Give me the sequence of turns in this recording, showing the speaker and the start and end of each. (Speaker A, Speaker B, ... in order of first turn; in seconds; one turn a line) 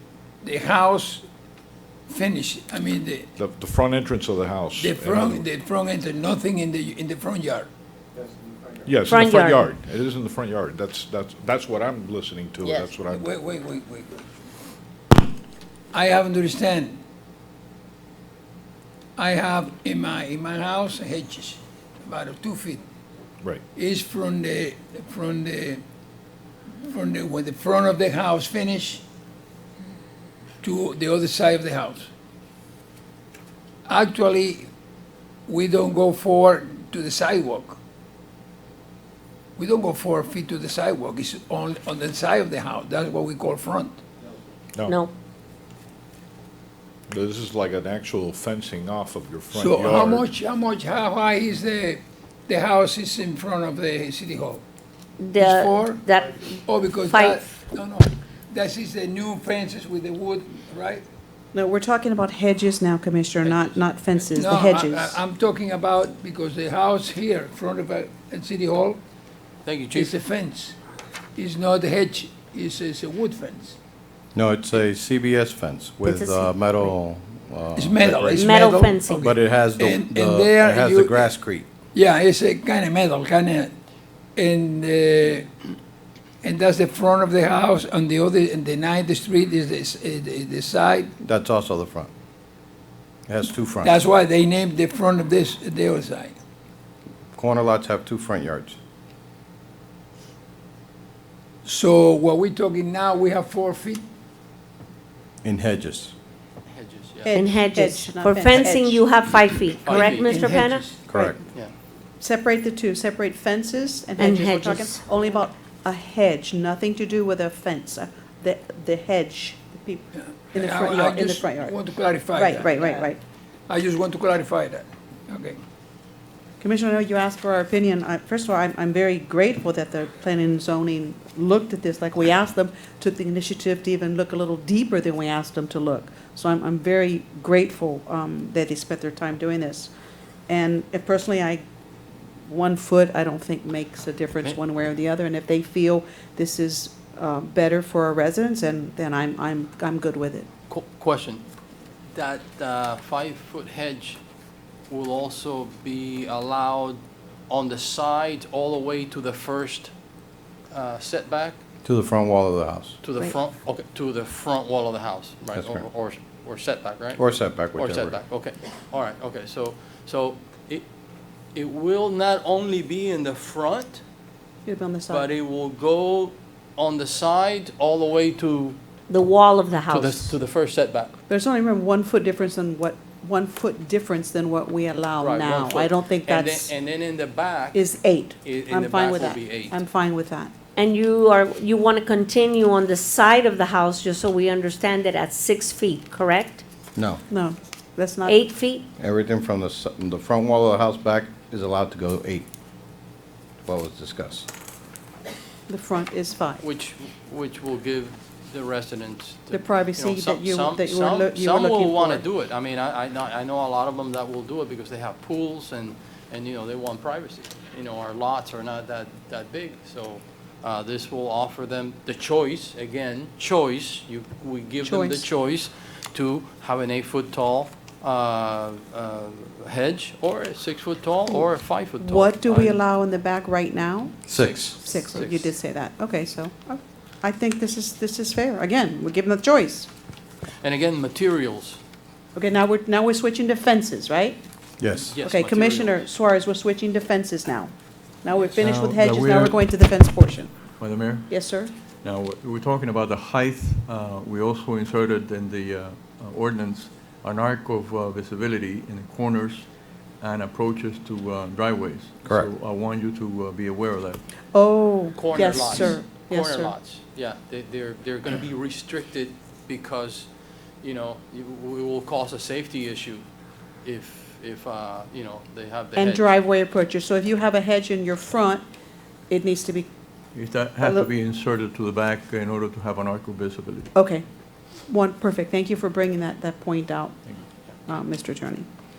Speaker A: 0.4-1.2
Speaker A: 2.1-3.3
Speaker B: 3.4-5.5
Speaker A: 4.8-7.7
Speaker B: 8.8-13.2
Speaker C: 9.1-9.7
Speaker A: 13.1-14.2
Speaker A: 15.9-17.0
Speaker A: 19.2-22.8
Speaker A: 23.8-25.8
Speaker A: 26.8-29.0
Speaker A: 30.6-32.1
Speaker A: 33.9-34.7
Speaker A: 35.5-37.8
Speaker A: 39.6-44.0
Speaker C: 44.8-45.1
Speaker B: 47.1-50.3
Speaker A: 49.5-54.6
Speaker C: 55.2-56.4
Speaker A: 55.4-61.0
Speaker C: 57.1-57.4
Speaker D: 61.5-65.2
Speaker E: 63.4-63.8
Speaker A: 64.3-69.0
Speaker E: 69.7-70.2
Speaker A: 69.9-70.8
Speaker A: 71.4-73.8
Speaker F: 74.3-81.7
Speaker C: 76.0-76.5
Speaker A: 77.8-81.3
Speaker C: 78.4-79.3
Speaker A: 81.9-83.7
Speaker A: 84.4-85.5
Speaker A: 86.4-91.1
Speaker F: 91.2-92.1
Speaker F: 93.3-94.0
Speaker A: 93.8-96.4
Speaker F: 97.3-98.8
Speaker A: 101.6-104.0
Speaker F: 105.4-106.1
Speaker E: 106.7-107.4
Speaker D: 107.2-109.1
Speaker C: 107.3-110.8
Speaker E: 109.8-110.9
Speaker A: 110.3-110.9
Speaker F: 111.1-111.4
Speaker D: 112.2-121.8
Speaker C: 114.2-115.0
Speaker A: 120.2-123.1
Speaker D: 122.3-123.2
Speaker A: 123.7-125.6
Speaker D: 126.6-139.9
Speaker D: 140.5-141.6
Speaker D: 142.5-150.5
Speaker E: 150.7-151.4
Speaker E: 152.1-154.2
Speaker E: 154.9-159.9
Speaker E: 160.7-161.6
Speaker F: 161.8-163.0
Speaker E: 163.0-167.2
Speaker F: 165.6-165.9
Speaker F: 167.2-168.2
Speaker E: 167.8-170.8
Speaker E: 171.6-174.0
Speaker D: 174.7-175.3
Speaker E: 175.1-178.8
Speaker C: 179.1-180.4
Speaker E: 179.9-181.1
Speaker D: 181.3-186.7
Speaker E: 185.2-187.8
Speaker D: 187.7-190.5
Speaker E: 188.4-189.8
Speaker C: 190.8-196.6
Speaker F: 196.9-197.2
Speaker D: 197.3-198.5
Speaker C: 198.2-198.9
Speaker F: 199.0-202.5
Speaker F: 203.7-204.5
Speaker D: 205.7-206.6
Speaker E: 206.6-232.8
Speaker D: 209.5-212.3
Speaker D: 224.8-225.3
Speaker D: 231.3-234.2
Speaker F: 234.3-234.8
Speaker E: 234.3-235.6
Speaker D: 234.8-239.9
Speaker E: 240.6-241.8
Speaker D: 242.3-244.4
Speaker F: 244.8-245.1
Speaker E: 245.1-246.1
Speaker D: 245.2-250.6
Speaker G: 248.5-249.6
Speaker G: 250.8-251.4
Speaker D: 251.3-251.7
Speaker G: 252.0-259.7
Speaker G: 260.2-264.2
Speaker F: 262.2-262.5
Speaker D: 264.5-266.7
Speaker E: 265.1-270.3
Speaker G: 265.5-265.9
Speaker E: 270.8-273.2
Speaker E: 273.8-276.3
Speaker D: 275.9-278.6
Speaker D: 279.3-279.9
Speaker G: 280.3-283.9
Speaker D: 280.8-281.1
Speaker D: 283.9-284.2
Speaker D: 284.9-287.2
Speaker D: 287.9-288.7